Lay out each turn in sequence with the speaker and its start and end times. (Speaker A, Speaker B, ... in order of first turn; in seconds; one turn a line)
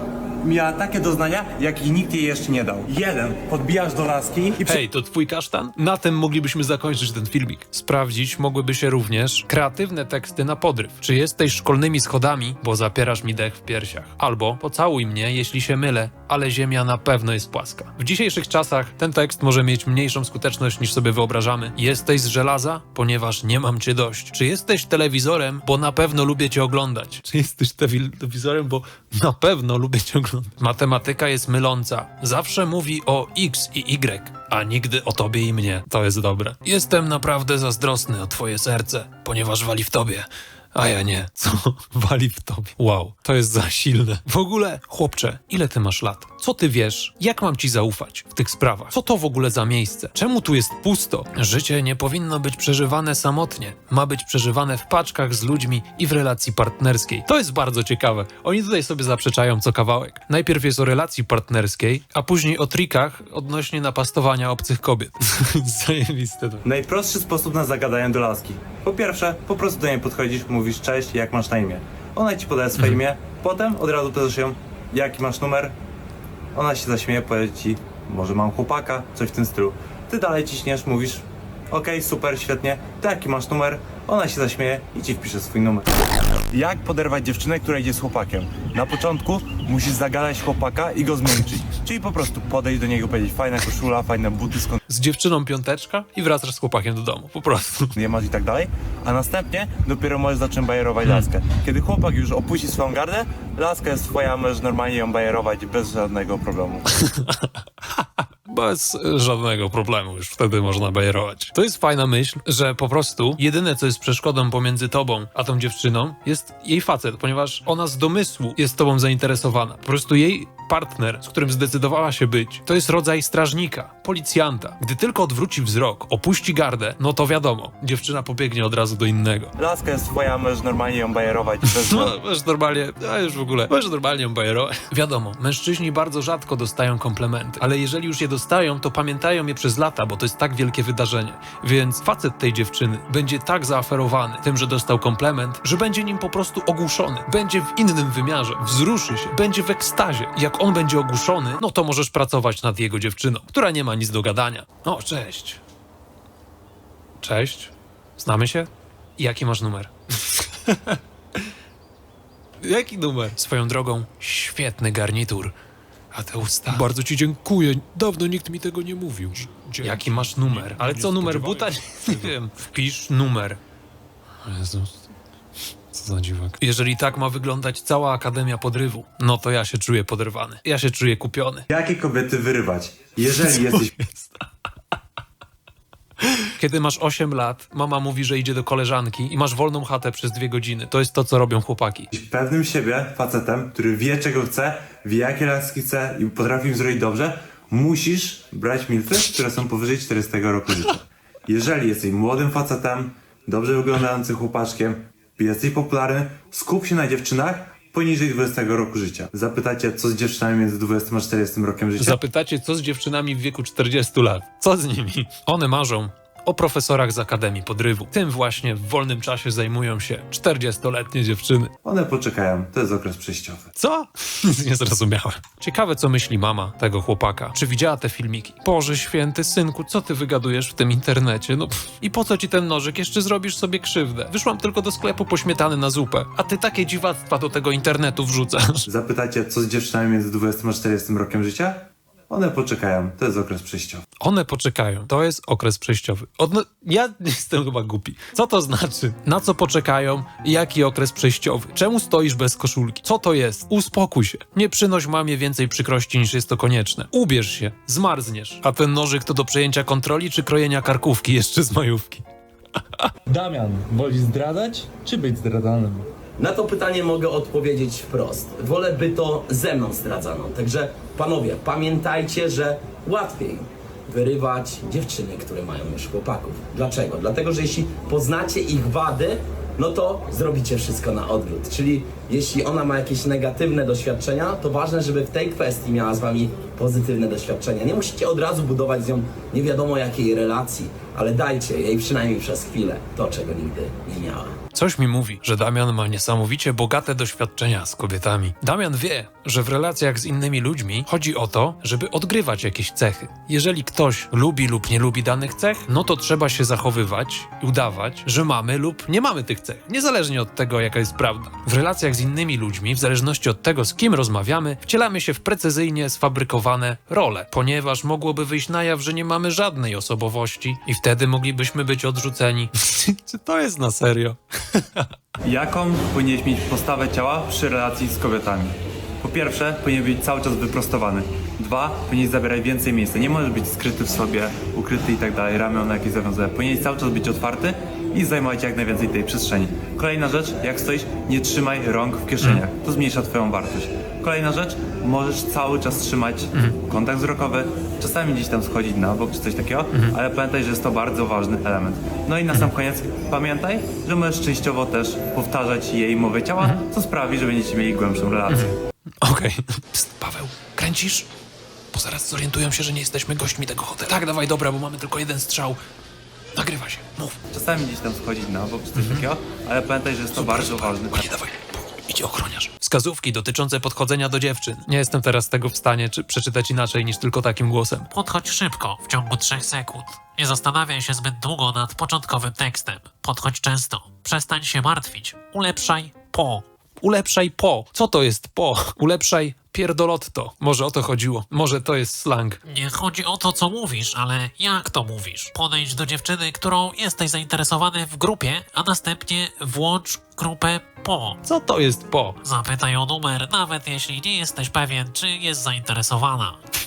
Speaker A: 0.4-4.8
Speaker B: 4.6-66.6
Speaker A: 66.6-75.7
Speaker A: 76.5-85.9
Speaker A: 86.5-94.8
Speaker B: 94.9-97.9
Speaker A: 98.0-106.9
Speaker B: 107.0-129.5
Speaker A: 129.6-132.1
Speaker B: 131.7-155.6
Speaker B: 157.2-161.0
Speaker B: 162.6-165.5
Speaker B: 166.1-173.6
Speaker A: 170.7-171.5
Speaker B: 174.4-175.0
Speaker B: 175.9-181.7
Speaker A: 181.7-183.9
Speaker B: 183.7-184.2
Speaker B: 186.6-192.1
Speaker A: 192.1-212.2
Speaker B: 212.0-221.7
Speaker A: 221.8-223.7
Speaker B: 223.8-238.9
Speaker A: 238.9-244.0
Speaker B: 244.2-262.2
Speaker C: 263.3-266.1
Speaker D: 266.4-294.5
Speaker B: 294.7-325.1
Speaker A: 325.4-358.8
Speaker B: 358.5-361.3
Speaker B: 361.9-365.8
Speaker B: 366.6-367.4
Speaker A: 367.5-371.3
Speaker B: 368.9-369.2
Speaker B: 370.3-378.1
Speaker E: 378.1-386.6
Speaker B: 387.0-392.6
Speaker E: 392.6-401.4
Speaker B: 401.4-402.4
Speaker E: 402.4-406.6